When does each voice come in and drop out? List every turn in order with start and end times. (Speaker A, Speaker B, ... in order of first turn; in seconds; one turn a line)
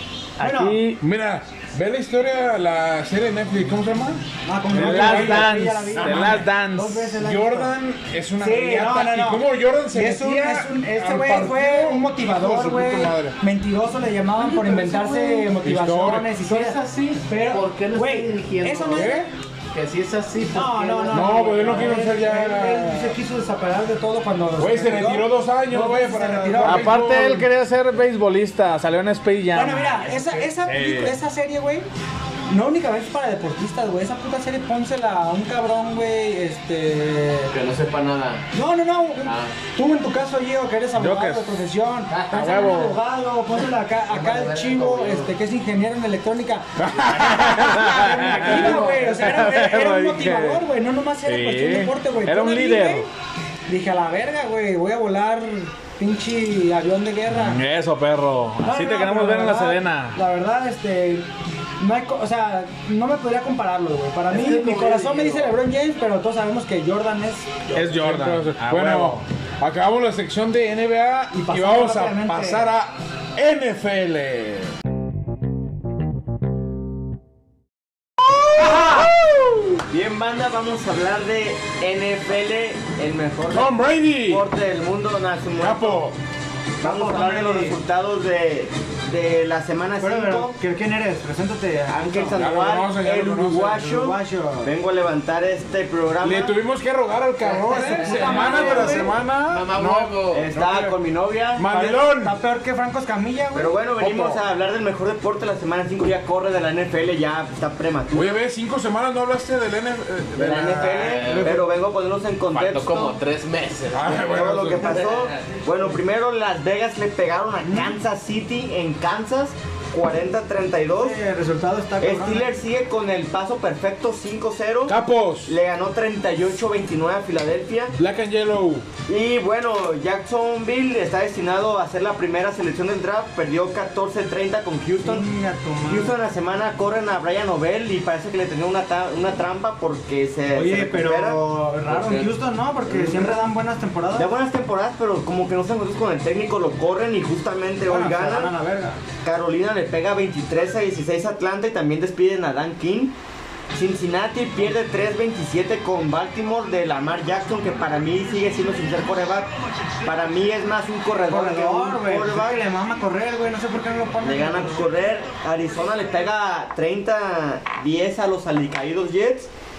Speaker A: 0.4-0.8
Speaker B: 0.4-1.0
Speaker C: 1.0-6.4
Speaker A: 4.5-7.7
Speaker B: 4.7-7.1
Speaker C: 7.2-13.4
Speaker A: 8.4-19.3
Speaker D: 14.4-15.5
Speaker C: 15.6-16.3
Speaker D: 16.4-19.2
Speaker C: 18.9-19.2
Speaker D: 19.7-21.9
Speaker A: 20.5-26.9
Speaker C: 21.1-23.1
Speaker C: 24.6-27.5
Speaker B: 26.6-31.1
Speaker A: 29.5-31.9
Speaker A: 32.5-37.5
Speaker D: 37.5-38.5
Speaker A: 38.5-53.1
Speaker D: 39.2-39.5
Speaker B: 41.0-41.5
Speaker D: 42.1-42.7
Speaker B: 42.3-43.0
Speaker D: 44.1-45.3
Speaker C: 46.8-48.1
Speaker B: 47.1-50.6
Speaker D: 48.4-49.3
Speaker B: 51.2-53.1
Speaker A: 53.7-57.6
Speaker B: 57.5-60.2
Speaker A: 58.6-61.3
Speaker A: 61.8-67.7
Speaker D: 64.3-65.6
Speaker B: 67.7-69.2
Speaker C: 67.9-74.7
Speaker A: 71.3-72.7
Speaker A: 78.6-79.1
Speaker C: 78.6-79.5
Speaker E: 79.9-86.1
Speaker C: 83.5-84.5
Speaker C: 85.6-86.2
Speaker A: 86.8-87.8
Speaker E: 86.8-90.6
Speaker A: 90.0-92.4
Speaker E: 91.9-96.6
Speaker C: 92.3-94.0
Speaker A: 93.8-94.7
Speaker C: 96.2-101.0
Speaker A: 97.6-99.2
Speaker D: 97.8-100.5
Speaker E: 98.6-98.9
Speaker E: 100.3-101.8
Speaker C: 101.6-102.4
Speaker A: 101.7-103.8
Speaker E: 103.5-108.4
Speaker C: 104.0-104.4
Speaker C: 108.1-111.7
Speaker E: 110.4-113.1
Speaker D: 110.9-111.6
Speaker D: 112.5-115.5
Speaker C: 113.9-115.0
Speaker E: 114.1-121.2
Speaker A: 117.6-118.0
Speaker A: 120.9-122.5
Speaker E: 122.0-128.0
Speaker C: 124.9-125.5
Speaker C: 128.0-128.9
Speaker E: 129.1-135.3
Speaker A: 135.0-136.2
Speaker E: 135.9-141.4
Speaker A: 140.5-144.3
Speaker D: 141.9-142.2
Speaker E: 142.9-143.3
Speaker E: 144.2-148.5
Speaker A: 147.9-149.0
Speaker E: 149.2-153.1
Speaker E: 153.7-159.5
Speaker E: 160.0-162.6
Speaker A: 161.2-164.8
Speaker E: 164.2-169.5